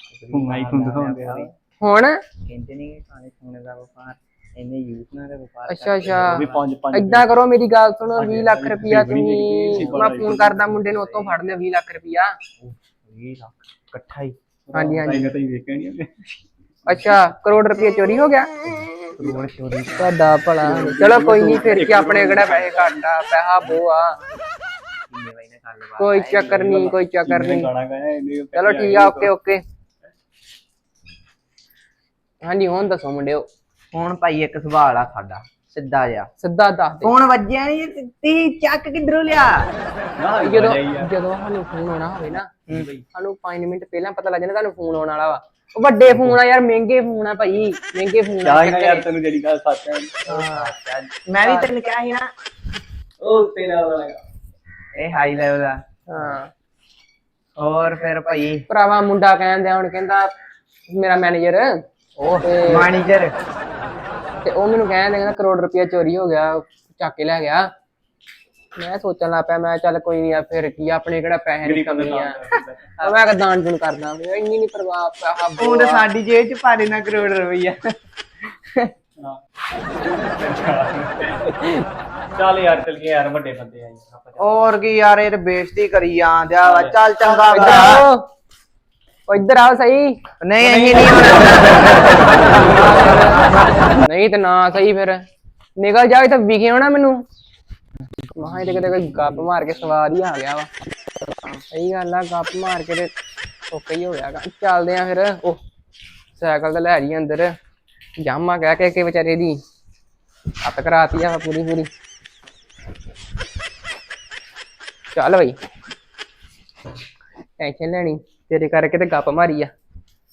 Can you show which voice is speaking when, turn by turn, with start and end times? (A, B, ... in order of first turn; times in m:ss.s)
0:00.1-0:01.5 A
0:00.3-0:01.5 B
0:01.8-0:02.2 C
0:02.4-0:06.6 A
0:05.7-0:12.4 C
0:06.1-0:07.4 B
0:08.2-0:10.8 B
0:09.8-0:10.2 A
0:10.8-0:11.4 A
0:12.6-0:14.4 A
0:14.7-0:16.1 B
0:14.7-0:15.3 C
0:16.8-0:18.5 C
0:18.6-0:20.1 A
0:19.2-0:19.9 B
0:20.0-0:24.2 C
0:20.6-0:23.0 B
0:23.6-0:26.5 A
0:26.0-0:27.7 C
0:26.4-0:29.3 B
0:28.5-0:29.6 C
0:32.4-0:33.5 C
0:33.9-0:36.3 A
0:36.4-0:37.1 C
0:37.0-0:39.7 A
0:40.2-0:41.1 B
0:40.3-0:42.5 C
0:42.7-0:43.0 B
0:43.1-0:49.0 C
0:48.4-0:50.2 B
0:50.2-0:50.7 C
0:50.2-0:52.3 A
0:51.4-0:51.7 C
0:53.2-0:54.2 B
0:54.9-0:56.3 A
0:56.1-0:56.5 C
0:57.6-0:58.6 A
0:58.7-1:00.3 C
1:00.9-1:01.8 C
1:02.2-1:03.3 A
1:02.4-1:02.9 C
1:04.4-1:07.7 C
1:08.8-1:12.4 C
1:11.6-1:13.0 B
1:13.0-1:16.0 C
1:15.6-1:17.8 A
1:18.6-1:18.9 A
1:20.4-1:21.6 B
1:22.4-1:24.6 B
1:24.4-1:28.0 A
1:26.6-1:27.0 B
1:27.5-1:28.3 C
1:29.3-1:30.2 C
1:30.4-1:32.2 A
1:30.6-1:32.1 B
1:32.4-1:35.2 C
1:35.8-1:37.2 C
1:38.4-1:40.7 C
1:41.7-1:43.1 C
1:43.7-1:45.6 C
1:46.3-1:47.5 C
1:48.2-1:49.6 C
1:50.6-1:51.9 C
1:55.1-1:55.6 C
1:57.6-1:59.7 C